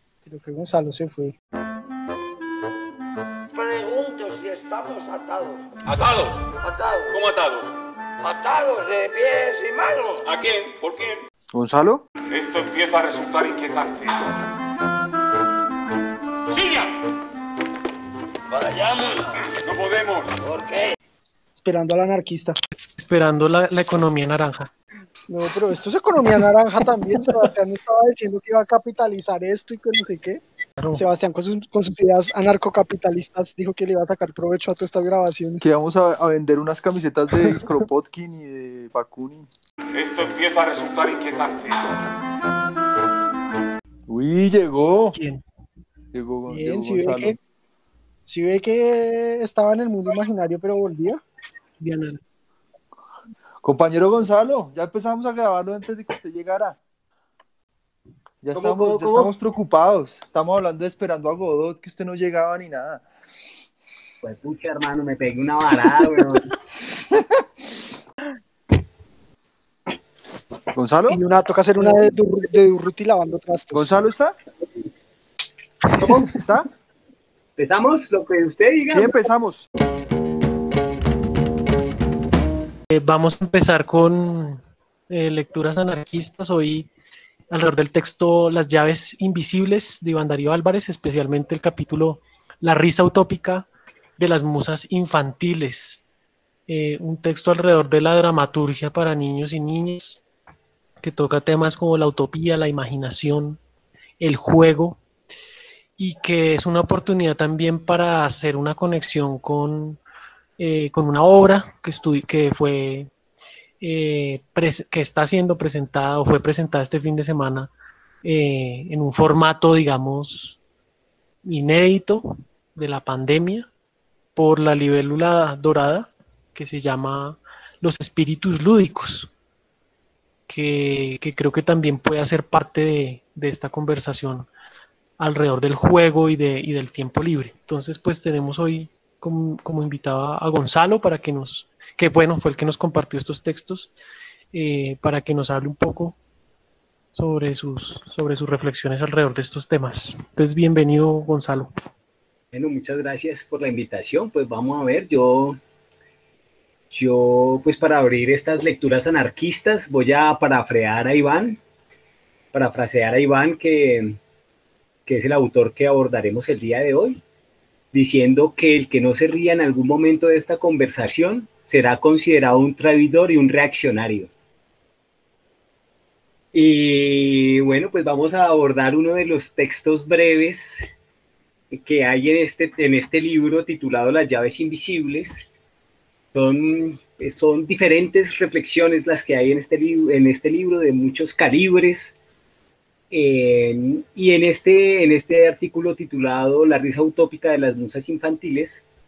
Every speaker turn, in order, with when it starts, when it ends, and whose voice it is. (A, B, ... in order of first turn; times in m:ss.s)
0:00.3-0:01.4 A
0:03.5-0:05.6 B
0:05.9-0:06.5 C
0:06.6-0:07.2 B
0:07.1-0:07.7 C
0:08.2-0:10.2 B
0:10.2-0:11.2 C
0:11.5-0:12.0 D
0:12.3-0:14.3 C
0:16.5-0:16.9 C
0:18.6-0:19.1 B
0:19.6-0:20.4 C
0:20.4-0:20.8 B
0:21.6-0:22.6 A
0:23.0-0:24.7 E
0:25.3-0:30.4 A
0:31.0-0:35.6 A
0:35.6-0:39.5 D
0:40.0-0:41.9 C
0:44.1-0:45.2 D
0:45.1-0:45.4 E
0:46.1-0:47.4 D
0:46.5-0:47.4 A
0:48.3-0:51.2 A
0:51.8-0:52.2 E
0:53.6-0:56.8 D
0:58.4-1:03.0 D
0:58.5-0:59.3 F
1:04.2-1:06.5 F
1:10.7-1:11.2 D
1:11.1-1:14.1 A
1:13.7-1:14.4 D
1:15.9-1:16.7 D
1:17.6-1:19.3 F
1:18.9-1:19.7 D
1:22.9-1:26.9 E
1:27.5-1:33.7 E
1:34.2-1:36.0 E
1:36.7-1:40.2 E
1:41.0-1:43.6 E
1:44.2-1:45.0 E
1:46.0-1:50.0 E
1:50.6-1:53.1 E
1:53.8-1:57.7 E
1:58.2-2:00.6 E
2:01.4-2:03.7 E
2:04.4-2:09.3 E
2:10.5-2:14.5 E
2:15.2-2:23.9 E
2:24.5-2:26.2 E
2:27.1-2:31.7 E
2:32.5-2:35.6 F
2:36.9-2:41.6 F
2:42.5-2:44.2 F
2:45.1-2:47.2 F
2:47.9-2:54.3 F
2:56.5-3:00.8 F
3:01.7-3:05.4 F
3:06.3-3:12.1 F
3:13.1-3:18.8 F